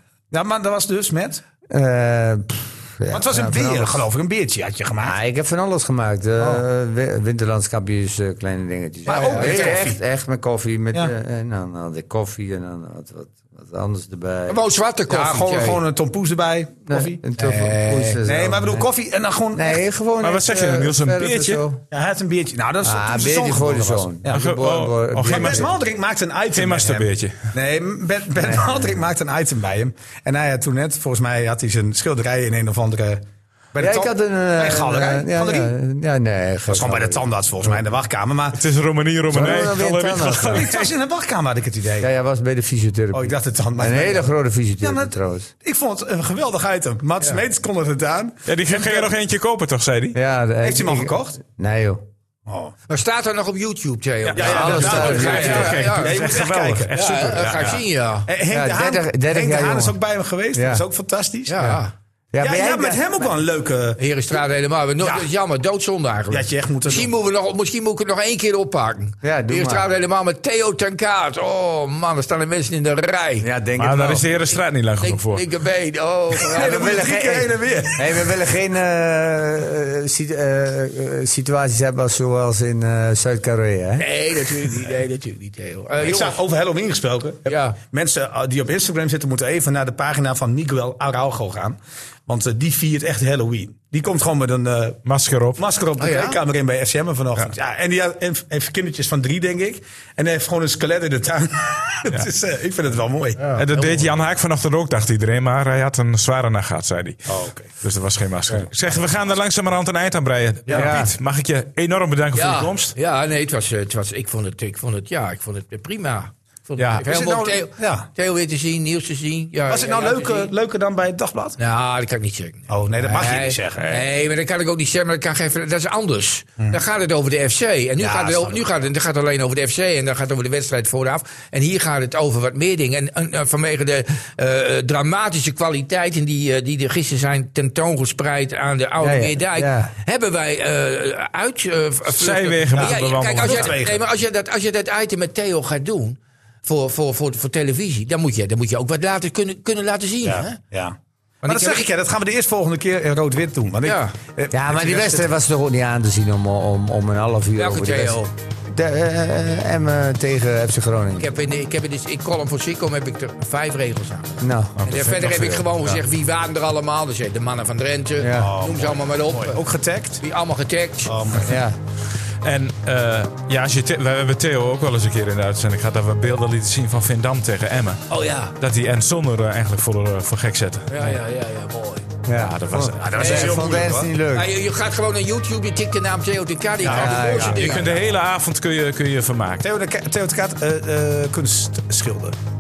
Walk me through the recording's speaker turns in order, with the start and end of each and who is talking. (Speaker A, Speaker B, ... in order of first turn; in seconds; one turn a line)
Speaker A: 0.3-1.4
Speaker B: 1.7-4.0
Speaker A: 3.1-5.2
Speaker B: 5.0-14.6
Speaker A: 9.1-10.0
Speaker C: 9.1-9.9
Speaker C: 14.5-15.8
Speaker A: 15.1-17.2
Speaker B: 16.9-18.9
Speaker C: 17.4-18.2
Speaker A: 18.2-19.8
Speaker B: 19.5-21.8
Speaker D: 20.2-21.6
Speaker A: 21.9-24.5
Speaker B: 22.8-25.7
Speaker D: 24.3-25.7
Speaker A: 25.3-33.2
Speaker D: 26.5-27.5
Speaker B: 28.4-28.9
Speaker A: 33.7-35.7
Speaker B: 33.8-37.8
Speaker A: 36.7-38.6
Speaker D: 38.5-40.9
Speaker B: 39.3-40.7
Speaker A: 39.3-39.8
Speaker A: 40.3-42.1
Speaker B: 42.0-45.5
Speaker A: 43.1-44.3
Speaker A: 44.8-49.1
Speaker D: 48.5-50.2
Speaker B: 50.1-52.0
Speaker A: 50.6-51.4
Speaker A: 52.5-52.7
Speaker C: 52.9-56.1
Speaker D: 54.2-57.9
Speaker A: 54.4-56.9
Speaker B: 54.4-55.8
Speaker C: 56.9-58.3
Speaker A: 58.2-61.7
Speaker B: 58.5-60.0
Speaker B: 60.5-60.8
Speaker C: 61.5-61.9
Speaker B: 62.3-63.4
Speaker A: 62.4-64.4
Speaker C: 64.0-73.5
Speaker A: 65.0-65.3
Speaker A: 66.3-67.1
Speaker B: 69.2-69.8
Speaker B: 73.4-74.3
Speaker D: 73.8-75.4
Speaker C: 75.0-77.1
Speaker A: 76.4-78.0
Speaker B: 76.5-84.1
Speaker C: 84.0-86.4
Speaker A: 86.0-95.0
Speaker C: 87.5-87.8
Speaker D: 95.0-95.6
Speaker A: 95.5-103.5
Speaker C: 96.0-96.4
Speaker C: 103.4-104.1
Speaker D: 103.5-112.9
Speaker A: 107.3-107.7
Speaker A: 108.8-109.3
Speaker C: 110.7-110.9
Speaker B: 110.7-111.1
Speaker C: 112.3-120.5
Speaker D: 116.8-117.0
Speaker A: 117.0-118.1
Speaker A: 119.7-121.6
Speaker C: 121.6-150.6
Speaker A: 122.7-124.0
Speaker A: 128.0-128.7
Speaker B: 139.0-139.9
Speaker D: 142.1-143.8
Speaker A: 142.7-144.0
Speaker A: 150.2-155.3
Speaker C: 151.4-151.9
Speaker C: 153.8-154.1
Speaker B: 154.5-161.3
Speaker C: 157.6-158.3
Speaker C: 161.2-169.6
Speaker B: 164.4-164.8
Speaker D: 164.8-166.0
Speaker B: 168.2-168.5
Speaker A: 168.3-170.2
Speaker C: 170.2-171.4
Speaker A: 171.0-171.6
Speaker B: 171.4-171.8
Speaker D: 172.4-178.0
Speaker C: 178.1-178.5
Speaker D: 178.6-180.9
Speaker C: 180.9-182.1
Speaker B: 182.2-184.5
Speaker D: 182.3-183.0
Speaker A: 182.9-184.1
Speaker C: 183.2-183.7
Speaker C: 184.3-187.9
Speaker A: 186.8-187.6
Speaker B: 186.8-187.8
Speaker D: 186.9-189.6
Speaker A: 189.6-192.3